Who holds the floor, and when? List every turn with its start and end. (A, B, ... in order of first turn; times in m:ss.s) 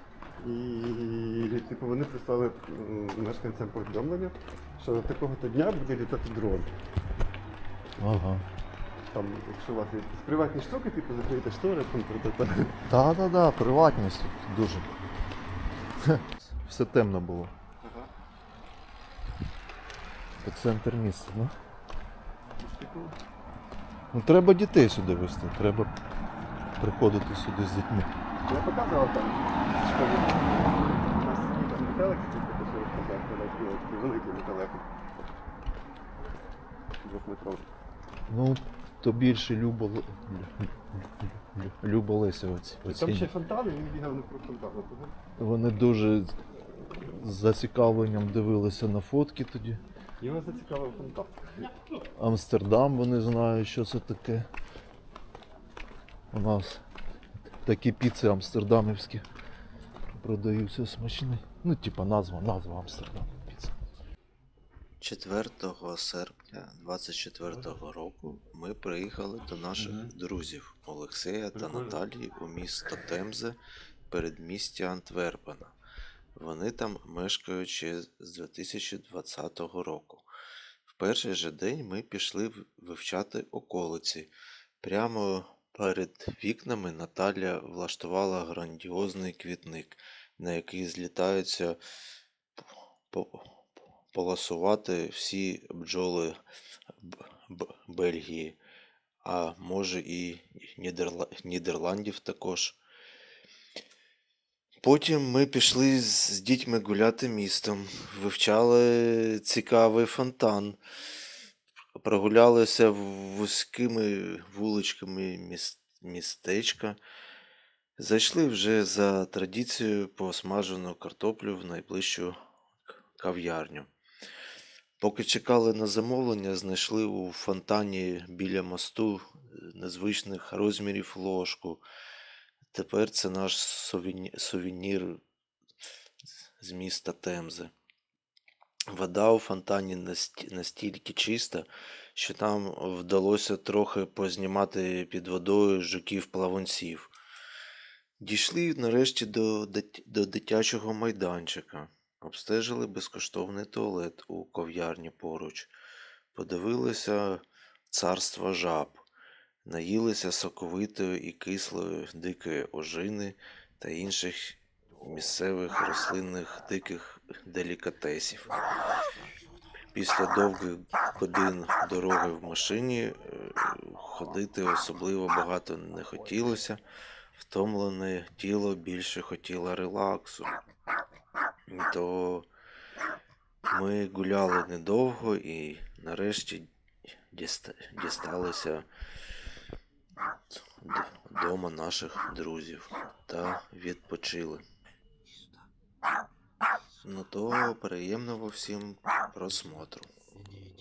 0:00.4-0:06.7 A
0:08.0-0:08.4 B
0:09.1-0:12.8 A
0:12.9-0:14.9 B
0:16.0-0:17.5 B
0:17.8-0:18.1 A
0:20.4-0:21.5 B
0:22.6-0:23.2 A
0:24.1-0:25.9 B
0:26.8-0:28.1 B
0:28.4-0:35.0 A
0:37.0-0:37.7 A
0:38.3-0:40.7 B
0:41.4-0:43.3 B
0:42.8-0:45.2 A
0:45.4-0:46.3 B
0:47.0-0:49.8 B
0:50.2-0:51.7 A
0:52.2-0:54.5 B
0:56.3-0:56.8 B
0:57.6-0:59.2 B
1:00.2-1:03.8 B
1:05.0-1:13.6 C
1:09.8-1:10.1 A
1:11.5-1:12.0 A
1:14.1-1:15.7 C
1:16.4-1:20.2 C
1:20.9-1:31.8 C
1:33.1-1:33.5 C
1:34.1-1:36.4 C
1:37.1-1:38.6 C
1:39.2-1:42.8 C
1:44.8-1:50.8 C
1:52.0-1:57.0 C
1:58.0-2:02.4 C
2:03.2-2:03.9 C
2:05.0-2:11.8 C
2:12.7-2:15.2 C
2:16.6-2:17.7 C
2:18.9-2:27.1 C
2:28.2-2:35.7 C
2:36.3-2:39.0 C
2:39.6-2:48.6 C
2:49.9-2:56.8 C
2:57.4-3:00.5 C
3:01.7-3:02.5 C
3:03.6-3:06.7 C
3:07.3-3:08.9 C
3:10.8-3:14.6 C
3:17.0-3:20.1 C